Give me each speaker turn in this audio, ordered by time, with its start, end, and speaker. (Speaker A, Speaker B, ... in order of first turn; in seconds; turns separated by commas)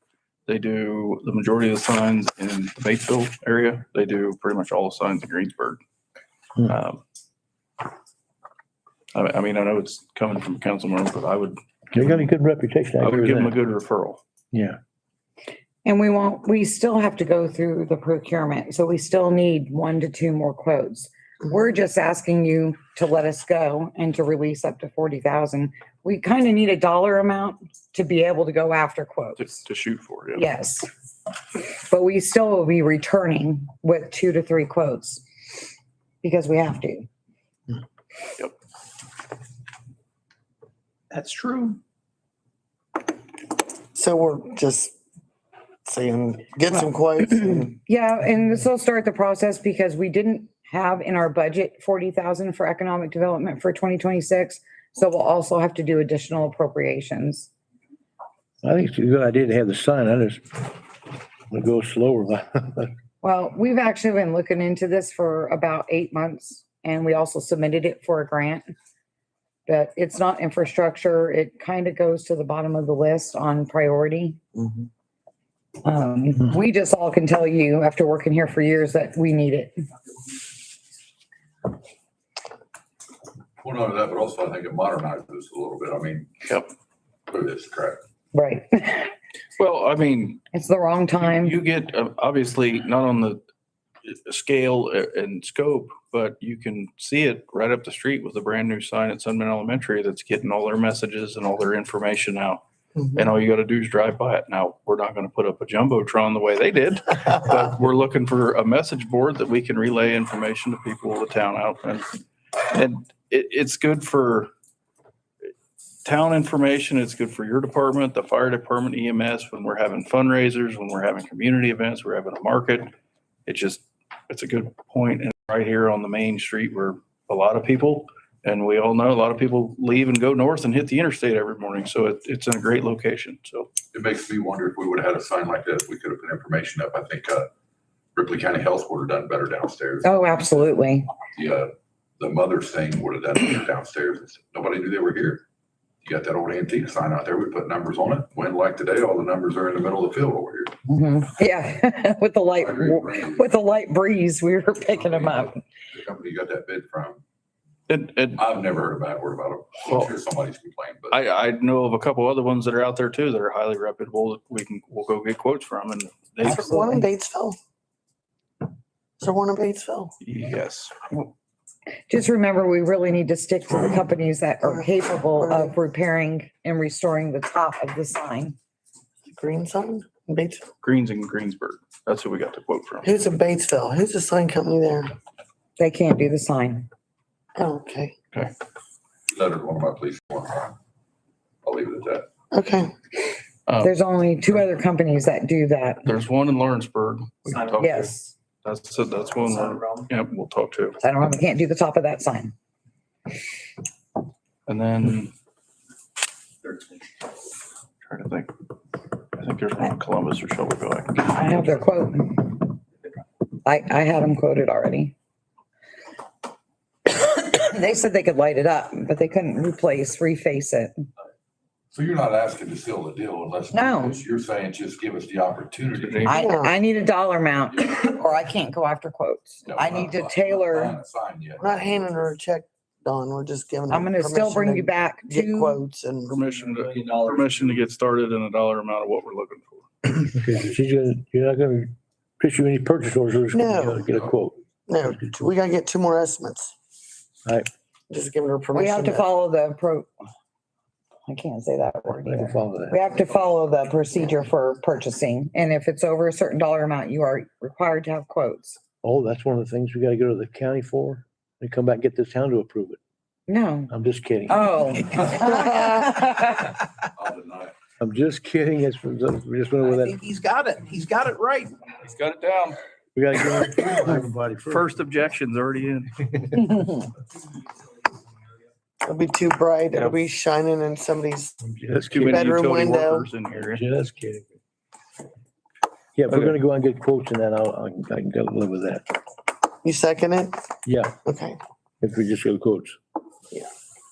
Speaker A: 0.5-5.8, Speaker A: 6.7-7.0, Speaker A: 9.1-12.3, Speaker B: 11.9-13.5, Speaker A: 13.0-14.2, Speaker B: 14.5-14.8, Speaker C: 15.8-29.5, Speaker A: 29.4-30.5, Speaker C: 30.4-30.9, Speaker C: 31.5-35.2, Speaker C: 36.2-37.1, Speaker D: 41.1-41.8, Speaker E: 43.9-44.9, Speaker E: 45.8-47.8, Speaker C: 47.8-57.5, Speaker B: 58.6-60.7, Speaker B: 61.5-62.9, Speaker C: 63.2-68.7, Speaker C: 69.7-74.4, Speaker E: 74.5-74.8, Speaker C: 75.8-79.8, Speaker F: 83.6-86.3, Speaker A: 86.4-86.7, Speaker F: 87.3-88.0, Speaker C: 88.3-89.1, Speaker A: 89.6-90.4, Speaker C: 90.5-91.6, Speaker A: 91.2-93.4, Speaker A: 94.0-102.6, Speaker E: 103.0-103.2, Speaker A: 103.1-112.2, Speaker A: 112.7-114.5, Speaker A: 116.0-122.9, Speaker A: 123.5-133.7, Speaker F: 133.9-137.5, Speaker F: 138.1-140.1, Speaker C: 140.0-141.1, Speaker F: 141.3-145.4, Speaker F: 146.0-150.7, Speaker C: 150.9-155.6, Speaker F: 152.6-153.5, Speaker F: 154.8-157.2, Speaker A: 157.9-158.4, Speaker F: 158.4-161.2, Speaker A: 161.1-166.9, Speaker E: 166.4-167.6, Speaker C: 166.7-167.0, Speaker E: 169.2-170.1, Speaker A: 170.2-170.9, Speaker C: 172.1-178.6, Speaker E: 174.6-175.8, Speaker E: 179.2-180.6, Speaker A: 180.8-183.1, Speaker E: 183.0-185.1, Speaker C: 185.8-186.9, Speaker E: 187.6-188.1, Speaker F: 189.3-190.8, Speaker F: 191.6-192.3, Speaker E: 192.5-192.9, Speaker A: 193.7-193.9, Speaker C: 193.8-196.0, Speaker A: 196.0-198.1, Speaker D: 197.8-198.1, Speaker C: 197.8-198.3, Speaker A: 198.6-201.0, Speaker C: 201.0-202.5, Speaker A: 204.7-205.3, Speaker A: 208.0-208.5, Speaker A: 209.3-211.5, Speaker C: 211.3-212.6, Speaker C: 213.6-215.1, Speaker C: 217.1-221.0, Speaker F: 221.9-226.3, Speaker C: 223.7-224.2, Speaker A: 226.0-226.4, Speaker C: 226.2-231.0, Speaker E: 226.3-226.7, Speaker F: 229.7-232.2, Speaker E: 231.6-236.3, Speaker C: 233.9-235.8, Speaker A: 236.2-240.1, Speaker B: 240.3-244.6, Speaker E: 243.5-244.1, Speaker E: 244.9-246.7, Speaker E: 248.1-249.3, Speaker C: 248.7-250.1, Speaker C: 251.2-258.8, Speaker B: 252.1-253.1, Speaker B: 259.0-263.0, Speaker C: 263.5-263.9, Speaker B: 263.9-264.9, Speaker C: 264.5-266.7, Speaker F: 267.1-267.7, Speaker B: 268.0-270.2, Speaker D: 269.9-271.6, Speaker A: 270.7-272.8, Speaker B: 273.1-275.0, Speaker A: 274.7-276.2, Speaker E: 279.0-281.6, Speaker B: 281.6-282.5, Speaker A: 282.0-283.8, Speaker E: 282.2-283.3, Speaker B: 283.5-284.5, Speaker B: 286.1-289.1, Speaker A: 286.3-286.6, Speaker E: 289.8-290.6, Speaker B: 290.8-291.1, Speaker E: 291.2-291.6, Speaker B: 292.0-293.0